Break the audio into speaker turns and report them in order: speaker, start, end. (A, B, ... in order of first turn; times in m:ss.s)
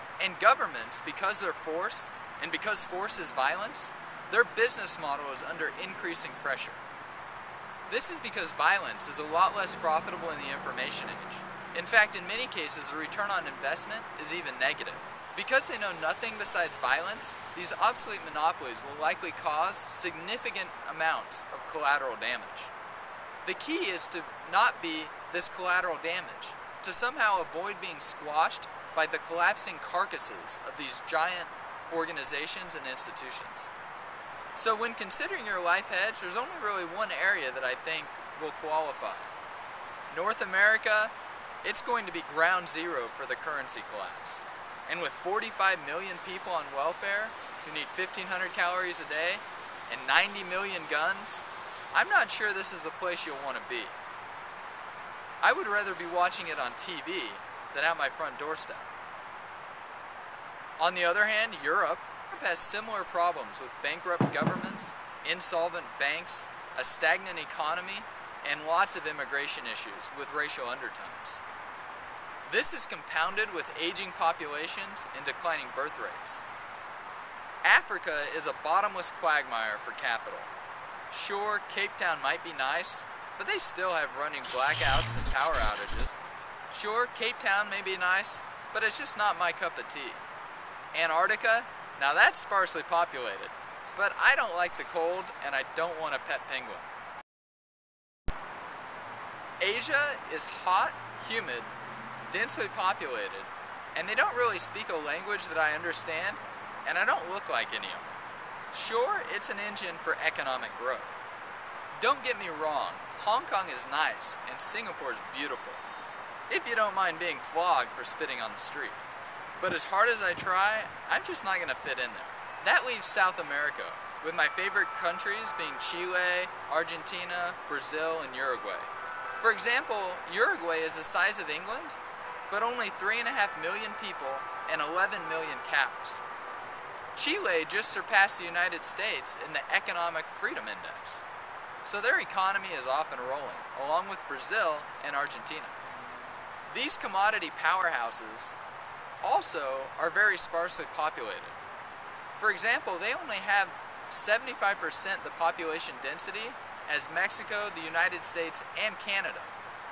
0:00.2-0:06.8 A
0:07.9-0:22.7 A
0:23.4-0:33.7 A
0:34.6-0:39.3 A
0:40.1-0:41.1 A
0:41.6-0:54.0 A
0:55.4-0:58.9 A
1:00.8-1:11.4 A
1:12.5-1:16.4 A
1:17.6-1:20.5 A
1:21.1-1:26.2 A
1:26.7-1:30.2 A
1:30.9-1:36.9 A
1:39.6-1:41.7 A
1:42.3-1:48.1 A
1:48.7-1:51.2 A
1:52.0-1:55.8 A
1:56.5-1:59.0 A
1:59.6-2:12.0 A
2:12.5-2:16.2 A
2:17.2-2:21.2 A
2:21.8-2:25.8 A
2:26.7-2:28.5 A
2:29.2-2:31.6 A
2:32.4-2:39.5 A